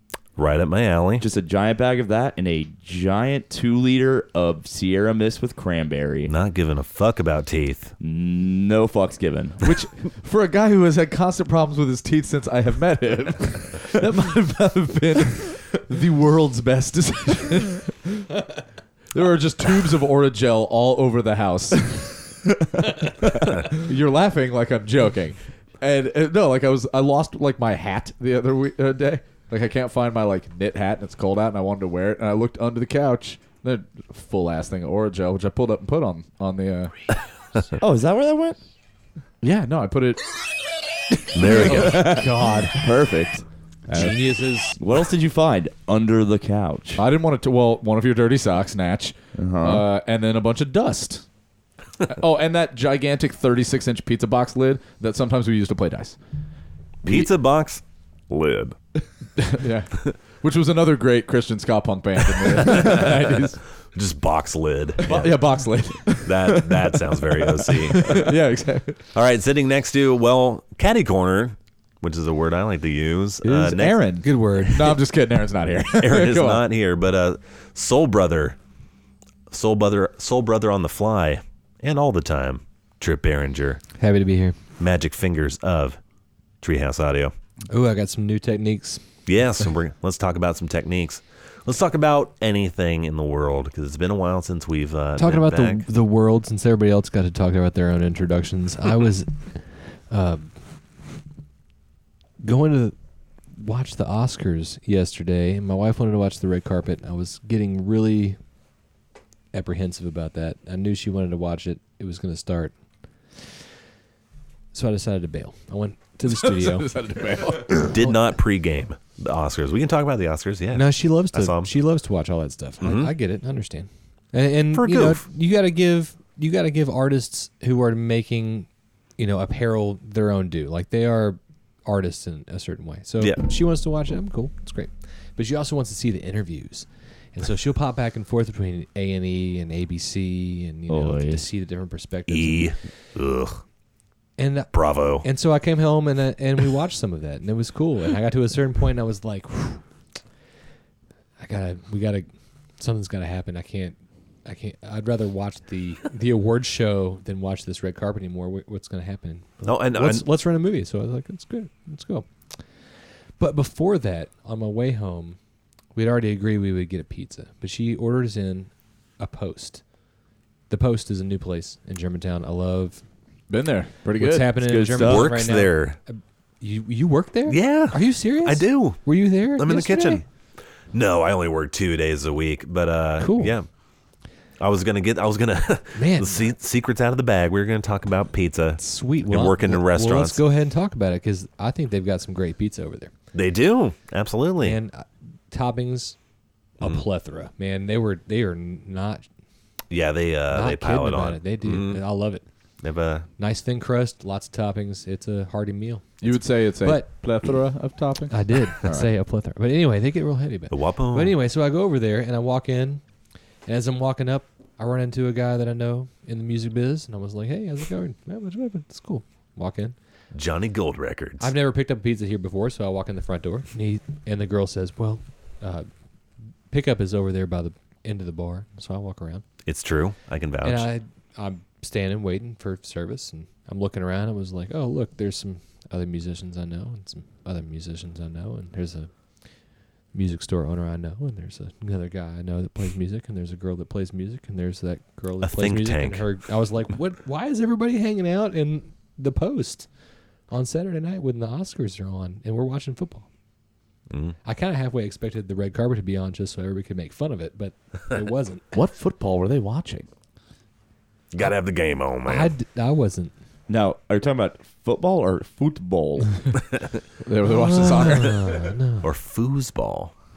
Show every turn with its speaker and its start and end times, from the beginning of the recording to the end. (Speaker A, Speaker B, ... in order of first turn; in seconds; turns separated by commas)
Speaker A: 0.3-1.2, Speaker B: 1.2-6.3, Speaker A: 6.3-7.9, Speaker B: 8.0-9.7, Speaker C: 9.6-18.3, Speaker C: 19.1-36.9, Speaker B: 37.8-38.6, Speaker C: 39.4-40.2, Speaker A: 41.3-42.2, Speaker C: 41.4-42.7, Speaker B: 41.5-44.2, Speaker D: 43.9-44.8, Speaker B: 44.8-47.0, Speaker C: 47.0-51.2, Speaker B: 49.3-49.9, Speaker C: 52.0-56.2, Speaker A: 57.0-58.8, Speaker C: 59.4-63.6, Speaker A: 62.5-63.2, Speaker A: 63.9-65.4, Speaker C: 65.0-69.0, Speaker A: 66.2-68.3, Speaker A: 69.1-74.0, Speaker C: 73.4-76.6, Speaker D: 74.2-74.8, Speaker A: 75.9-78.6, Speaker A: 79.5-83.8, Speaker D: 84.0-84.6, Speaker A: 84.8-86.0, Speaker A: 86.6-87.3, Speaker D: 87.7-89.0, Speaker A: 89.2-95.8, Speaker D: 95.2-100.5, Speaker D: 102.4-102.9, Speaker D: 103.5-108.4, Speaker D: 109.5-112.7, Speaker D: 114.7-116.9, Speaker C: 116.3-117.9, Speaker D: 117.8-118.1, Speaker A: 117.8-121.7, Speaker D: 120.7-142.7, Speaker A: 122.8-123.1, Speaker A: 124.7-125.2, Speaker B: 140.9-141.4, Speaker A: 142.3-143.6, Speaker D: 144.4-149.8, Speaker A: 144.7-145.2, Speaker D: 151.4-152.3, Speaker D: 152.8-162.8, Speaker A: 159.7-160.2, Speaker D: 163.4-165.4, Speaker D: 165.9-169.8, Speaker D: 170.7-173.0, Speaker C: 173.5-174.6, Speaker D: 174.1-180.2, Speaker B: 174.6-175.3, Speaker A: 175.0-176.0, Speaker A: 177.5-179.0, Speaker A: 179.6-180.2, Speaker A: 180.9-183.7, Speaker D: 183.2-183.5, Speaker A: 184.6-190.4, Speaker D: 185.9-186.5, Speaker D: 188.8-193.1, Speaker A: 193.3-194.8, Speaker D: 194.6-196.2, Speaker D: 196.8-199.2, Speaker A: 199.9-202.0, Speaker D: 200.5-202.4, Speaker A: 202.8-203.3, Speaker D: 203.4-207.1, Speaker C: 206.2-209.1, Speaker D: 208.3-213.0, Speaker A: 210.7-211.3, Speaker D: 213.7-219.9, Speaker A: 220.3-221.5, Speaker D: 221.4-225.9, Speaker D: 226.7-229.4, Speaker A: 229.7-230.9, Speaker D: 230.6-239.1, Speaker D: 240.1-249.9, Speaker A: 245.4-246.2, Speaker D: 250.5-253.3, Speaker A: 254.1-254.3, Speaker D: 254.4-258.7, Speaker C: 258.7-260.1, Speaker A: 261.3-262.5, Speaker D: 262.2-263.3, Speaker B: 263.7-266.4, Speaker C: 267.2-268.6, Speaker D: 267.5-269.1, Speaker A: 269.0-270.1